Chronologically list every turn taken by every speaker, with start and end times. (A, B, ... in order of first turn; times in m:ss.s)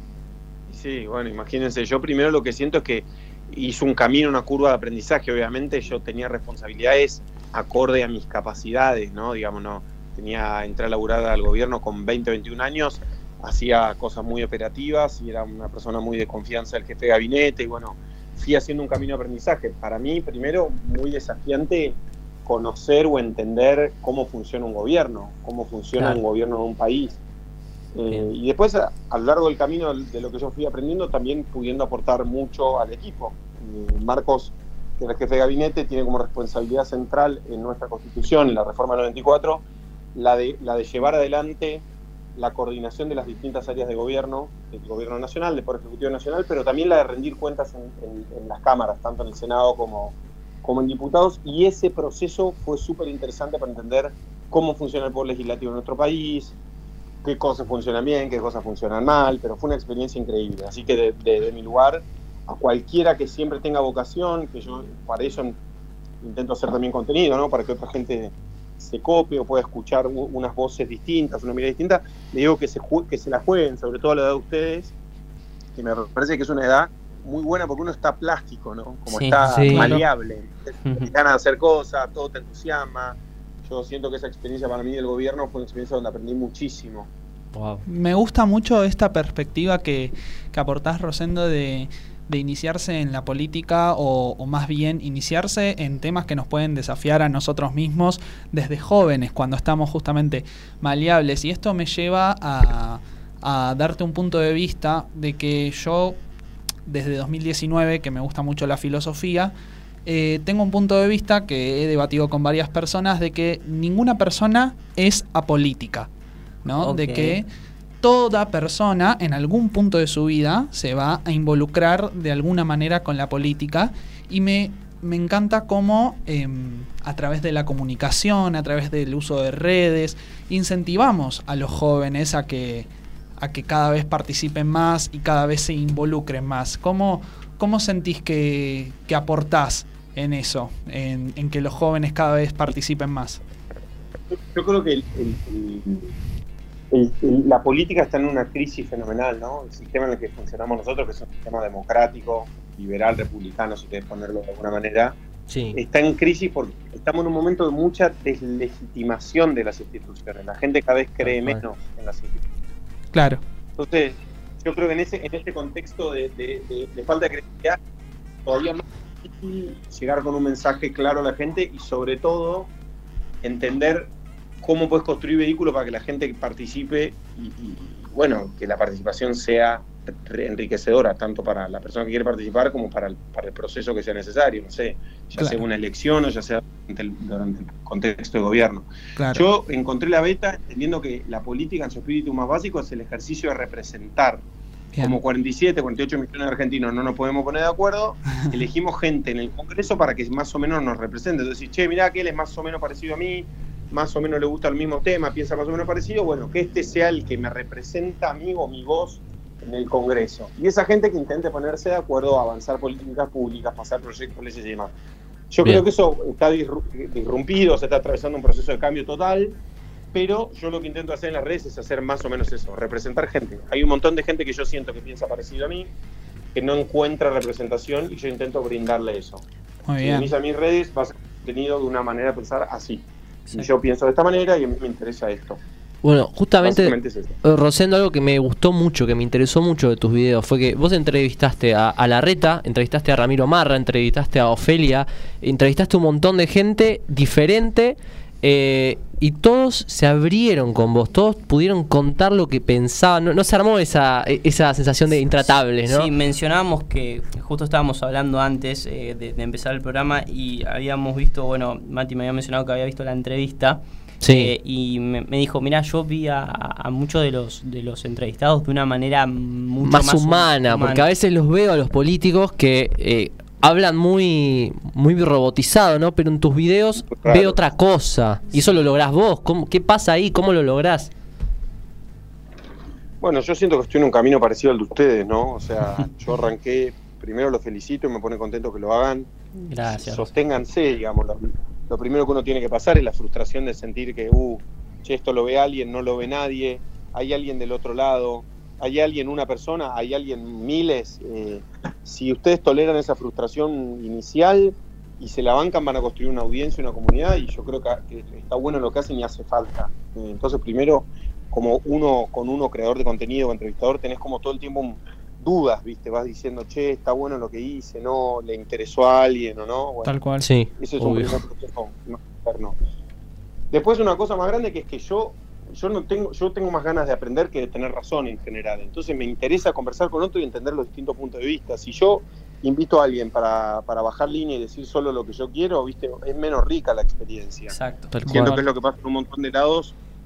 0:00.7-0:27.2 A
0:27.9-0:41.8 A
0:42.4-0:56.6 A
0:57.2-1:05.6 A
1:06.2-1:14.9 A
1:15.8-1:27.1 A
1:19.1-1:20.0 B
1:19.4-1:20.0 C
1:20.8-1:21.1 B
1:27.5-1:27.8 C
1:27.9-1:46.2 D
1:46.9-1:49.5 D
1:50.1-1:56.1 D
1:56.6-1:57.5 D
1:56.8-1:57.4 B
1:58.0-2:23.4 D
2:24.4-2:26.1 A
2:26.9-2:35.2 A
2:35.5-2:35.8 C
2:35.7-2:42.4 A
2:41.2-2:41.6 C
2:43.1-2:43.4 D
2:43.8-2:47.8 A
2:48.5-2:52.7 A
2:53.4-3:14.4 A
3:09.2-3:09.5 D
3:15.0-3:34.9 A
3:35.5-3:39.6 A
3:40.1-3:45.9 A
3:46.5-3:49.4 A
3:49.9-3:50.3 D
3:50.0-3:55.6 A
3:56.0-4:16.1 C
3:56.6-3:57.3 A
4:15.4-4:31.0 B
4:24.2-4:24.5 C
4:29.8-4:41.1 C
4:37.0-4:37.6 A
4:43.2-4:49.3 A
4:49.6-4:50.3 B
4:49.8-5:20.2 A
5:20.0-5:20.5 D
5:20.4-5:21.3 C
5:20.8-5:22.8 A
5:23.7-5:37.8 A
5:37.7-5:38.1 B
5:38.1-5:38.6 C
5:38.3-5:38.5 D
5:38.3-5:40.0 A